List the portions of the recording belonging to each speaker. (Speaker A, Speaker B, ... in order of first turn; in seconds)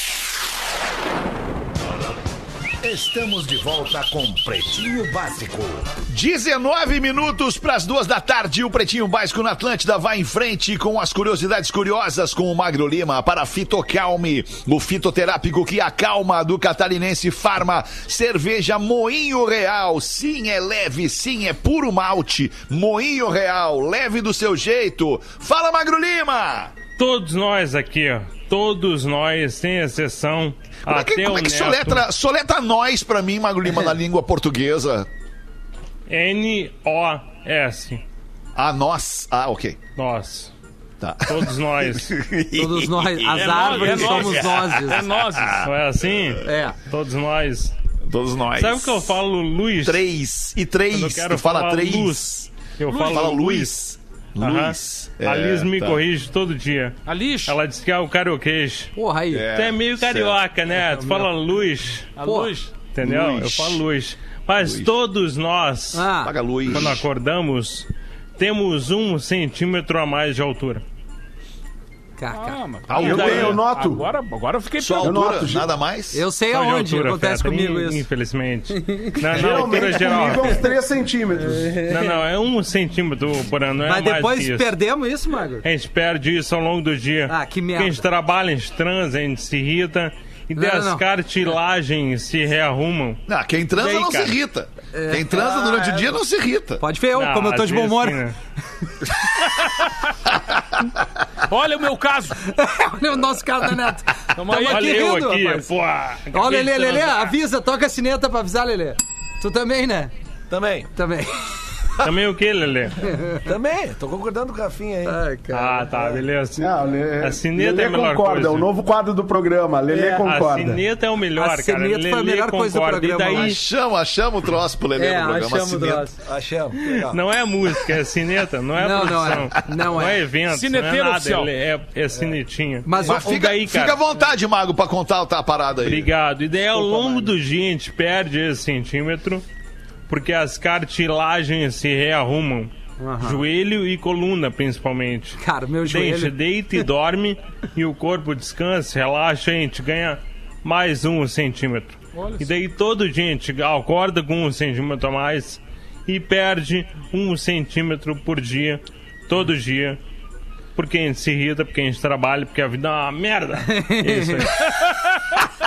Speaker A: 2.8-6.0
Speaker B: 6.1-26.7, 30.9-35.1, 38.6-39.8, 41.0-45.7, 48.0-49.2, 49.8-56.0, 59.3-60.4, 63.0-63.8, 64.6-64.9, 66.2-67.0, 72.9-73.6, 74.8-76.2, 93.3-96.8, 123.3-126.1, 133.1-136.1
Speaker C: 27.0-32.0, 36.1-38.0, 40.0-40.5, 41.3-42.1, 43.4-44.3, 45.6-47.7, 48.6-50.0, 50.9-53.6, 54.4-56.9, 57.5-58.9, 59.5-62.1, 62.8-66.1, 66.7-70.8, 73.0-73.6, 76.5-80.7, 81.9-84.7, 85.6-93.2, 93.8-94.3, 97.1-98.3, 104.5-107.3, 112.0-113.1, 115.5-116.7, 117.2-118.7, 120.1-123.6, 126.8-134.0, 135.8-139.4, 140.1-160.0, 160.8-165.2
Speaker D: 42.5-45.0, 46.5-46.8, 59.0-59.5, 62.2-62.5, 65.9-66.3, 72.2-72.6, 76.1-78.0, 78.8-79.1, 81.5-82.2, 83.8-85.7, 87.3-88.0, 90.5-91.0, 94.9-96.1, 96.8-98.3, 102.5-105.7, 106.3-110.1, 110.9-111.4, 113.1-113.4, 115.0-115.9, 119.9-120.2, 121.3-123.6, 125.0-126.2, 128.8-130.2, 132.9-133.6, 136.7-137.3, 143.0-143.4, 145.4-146.8, 163.7-164.5
Speaker E: 43.6-45.6, 52.9-53.7, 57.1-57.6, 62.2-62.7, 72.3-75.4, 99.6-99.9, 101.5-102.4, 104.4-105.2, 130.5-131.5, 152.2-152.5
Speaker F: 73.0-74.0, 75.0-75.7, 79.3-81.8, 116.6-120.8
Speaker G: 110.5-110.9, 113.5-115.2, 126.2-127.2